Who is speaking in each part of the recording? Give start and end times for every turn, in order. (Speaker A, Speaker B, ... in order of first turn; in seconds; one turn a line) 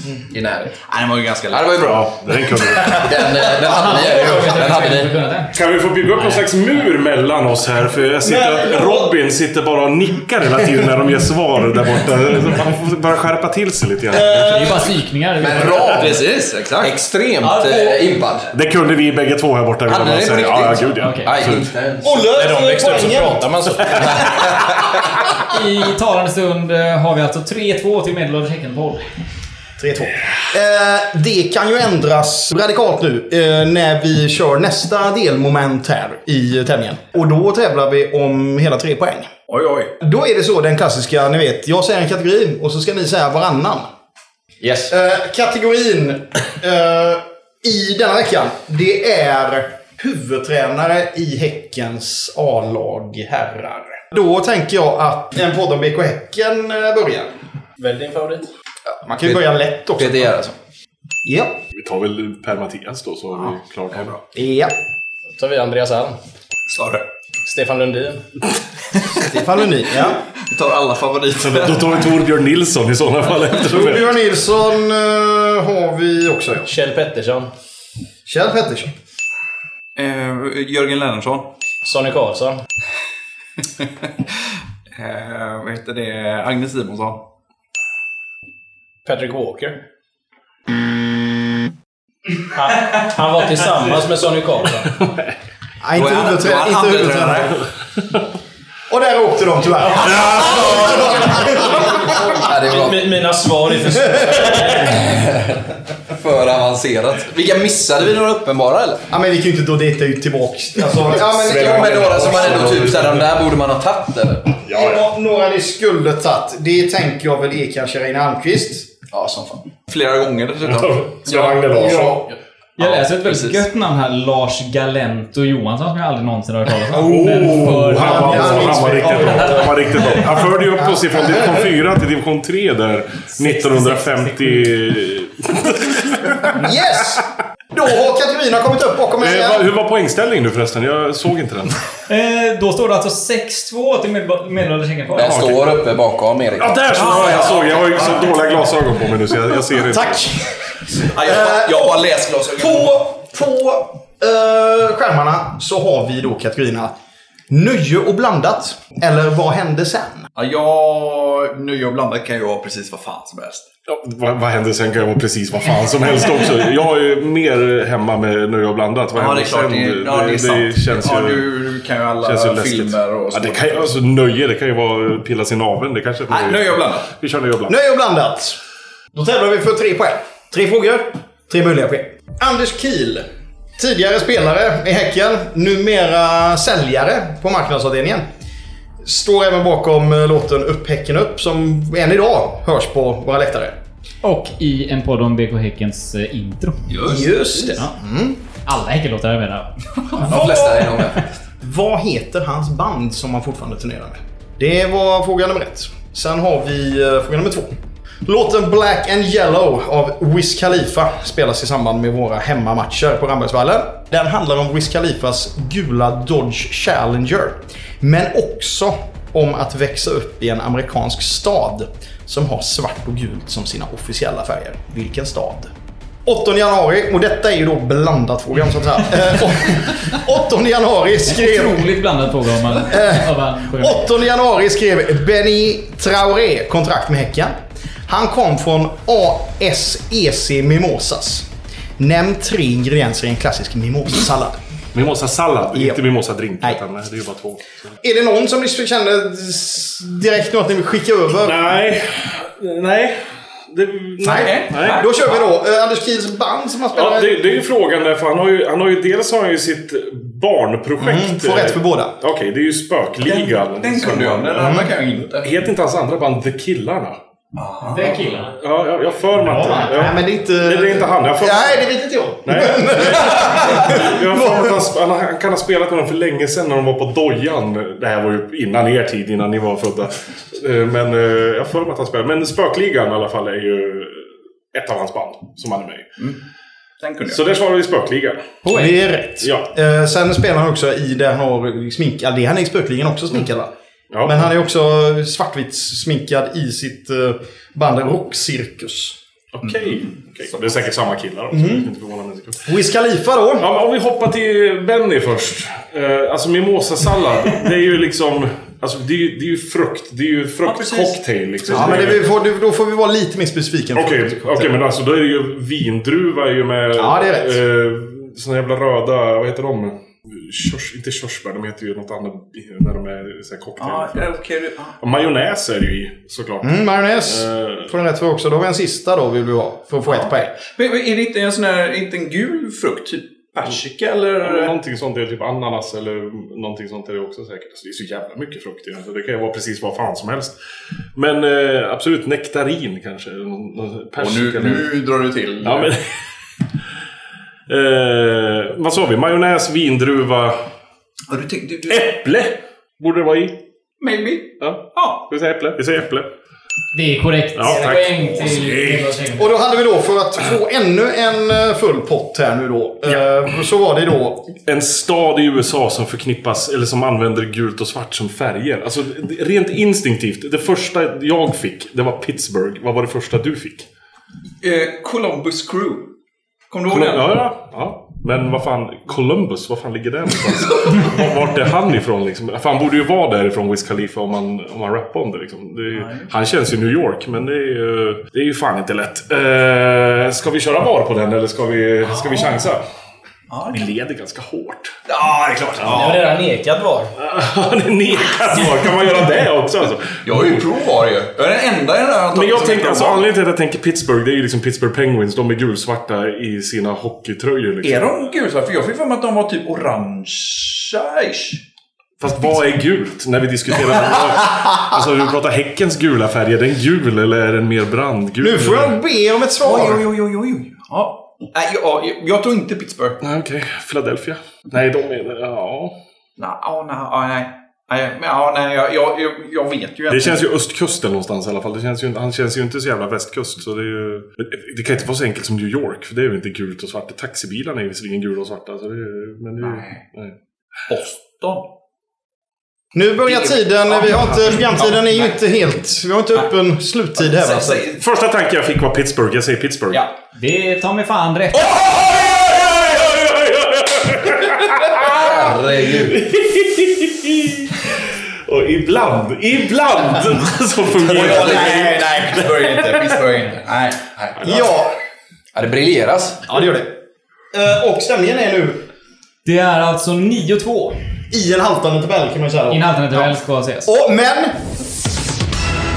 Speaker A: 0.3-0.8
Speaker B: 0.8-2.0
Speaker A: 1.5-2.1
Speaker C: 1.8-3.3
Speaker A: 2.7-5.1
Speaker D: 3.6-5.5
Speaker C: 5.5-14.8
Speaker D: 6.2-6.4
Speaker E: 8.2-9.2
Speaker E: 14.1-14.9
Speaker D: 14.4-16.1
Speaker A: 15.4-18.5
Speaker B: 15.9-16.9
Speaker D: 17.4-18.2
Speaker C: 18.5-21.7
Speaker A: 19.9-22.3
Speaker D: 21.0-21.4
Speaker E: 22.0-23.5
Speaker F: 22.3-24.3
Speaker A: 24.0-25.0
Speaker D: 25.5-29.1
Speaker E: 29.8-39.3
Speaker B: 39.5-39.9
Speaker E: 40.0-43.9
Speaker A: 44.6-44.9
Speaker E: 44.9-57.3
Speaker F: 57.8-58.5
Speaker E: 59.0-60.4
Speaker A: 59.2-60.6
Speaker E: 61.2-61.6
Speaker C: 61.7-64.2
Speaker E: 64.3-64.7
Speaker F: 65.4-66.2
Speaker B: 66.7-67.0
Speaker F: 67.5-68.2
Speaker E: 69.2-70.3
Speaker B: 70.4-72.1
Speaker C: 71.4-74.1
Speaker E: 73.6-76.7
Speaker F: 76.7-77.5
Speaker E: 78.3-78.9
Speaker B: 80.0-81.5
Speaker F: 81.8-82.6
Speaker B: 83.8-84.1
Speaker B: 85.0-87.2
Speaker F: 89.0-89.8
Speaker F: 92.5-94.9
Speaker E: 95.8-97.5
Speaker A: 96.0-97.4
Speaker B: 96.1-97.3
Speaker E: 98.9-102.4
Speaker C: 100.1-100.6
Speaker A: 100.4-103.2
Speaker F: 102.6-105.0
Speaker A: 104.6-109.0
Speaker E: 109.1-112.9
Speaker A: 111.2-114.6
Speaker C: 111.5-113.2
Speaker C: 114.7-115.0
Speaker E: 114.7-118.9
Speaker A: 119.1-119.7
Speaker B: 119.9-122.2
Speaker C: 120.6-122.2
Speaker D: 122.8-129.3
Speaker A: 122.8-123.5
Speaker C: 126.9-136.7
Speaker E: 127.4-129.8
Speaker E: 130.8-131.6
Speaker D: 133.4-134.8
Speaker E: 136.6-139.7
Speaker C: 139.2-141.8
Speaker D: 142.1-145.3
Speaker A: 145.2-147.6
Speaker C: 145.2-145.7
Speaker C: 146.6-150.3
Speaker B: 146.9-148.4
Speaker E: 149.9-150.5
Speaker B: 151.0-152.9
Speaker E: 151.2-152.0
Speaker E: 152.6-156.9
Speaker E: 157.5-160.3
Speaker B: 160.3-163.7
Speaker C: 163.9-171.5
Speaker B: 169.1-173.9
Speaker C: 172.2-177.7
Speaker B: 176.3-177.1
Speaker E: 177.7-178.6
Speaker E: 179.1-183.3
Speaker E: 183.8-188.3
Speaker E: 189.0-193.8
Speaker D: 194.2-197.0
Speaker B: 196.9-197.3
Speaker E: 197.0-198.4
Speaker D: 198.7-199.7
Speaker A: 200.1-201.3
Speaker E: 200.2-225.7
Speaker E: 226.2-231.9
Speaker D: 231.3-234.1
Speaker E: 232.9-237.6
Speaker E: 238.1-241.5
Speaker E: 242.0-244.6
Speaker C: 244.9-247.7
Speaker E: 245.7-246.0
Speaker E: 248.0-251.6
Speaker C: 251.4-255.0
Speaker E: 254.2-257.5
Speaker B: 254.2-255.3
Speaker C: 256.9-267.2
Speaker E: 261.0-262.2
Speaker B: 263.2-265.5
Speaker E: 264.6-264.9
Speaker B: 267.6-268.4
Speaker D: 267.9-268.6
Speaker C: 268.4-271.9
Speaker D: 269.4-269.9
Speaker E: 269.6-274.8
Speaker C: 272.4-286.1
Speaker B: 287.0-287.4
Speaker C: 287.3-288.6
Speaker D: 288.6-288.9
Speaker E: 288.7-293.7
Speaker C: 289.4-289.7
Speaker C: 294.1-294.5
Speaker E: 294.2-299.2
Speaker C: 299.5-302.7
Speaker E: 301.5-301.9
Speaker E: 302.7-303.7
Speaker C: 303.6-312.2
Speaker B: 310.6-312.1
Speaker E: 311.7-314.8
Speaker C: 313.9-324.4
Speaker E: 316.9-317.6
Speaker B: 323.8-325.0
Speaker C: 325.0-327.9
Speaker E: 326.6-330.6
Speaker B: 330.1-334.8
Speaker C: 334.4-340.6
Speaker C: 341.1-344.9
Speaker B: 344.2-345.9
Speaker C: 345.6-346.2
Speaker C: 347.7-350.7
Speaker B: 351.3-352.2
Speaker C: 351.9-353.6
Speaker B: 354.0-355.3
Speaker C: 354.6-356.3
Speaker D: 356.9-359.5
Speaker C: 357.6-359.1
Speaker E: 359.4-364.5
Speaker C: 364.6-373.9
Speaker B: 374.6-376.1
Speaker B: 376.7-377.4
Speaker C: 376.9-392.8
Speaker B: 385.9-386.3
Speaker B: 392.0-392.7
Speaker B: 393.5-393.9
Speaker C: 393.7-394.9
Speaker B: 395.1-396.3
Speaker C: 395.8-396.1
Speaker F: 395.9-397.1
Speaker C: 397.2-400.7
Speaker B: 400.2-403.3
Speaker C: 402.3-408.1
Speaker B: 407.8-411.6
Speaker C: 412.2-419.0
Speaker E: 418.4-420.0
Speaker B: 419.6-423.2
Speaker C: 423.2-425.9
Speaker B: 426.4-430.4
Speaker C: 430.1-440.3
Speaker B: 439.6-440.1
Speaker B: 440.9-441.7
Speaker E: 442.9-447.9
Speaker B: 443.2-445.4
Speaker B: 447.2-448.0
Speaker C: 448.0-450.0
Speaker D: 450.4-451.7
Speaker C: 451.7-463.2
Speaker A: 455.1-456.1
Speaker B: 460.9-464.6
Speaker E: 461.2-462.0
Speaker C: 464.4-464.7
Speaker E: 464.4-464.9
Speaker A: 465.5-466.4
Speaker E: 466.5-467.0
Speaker E: 467.5-468.8
Speaker D: 469.4-471.0
Speaker E: 471.3-474.6
Speaker D: 472.7-473.9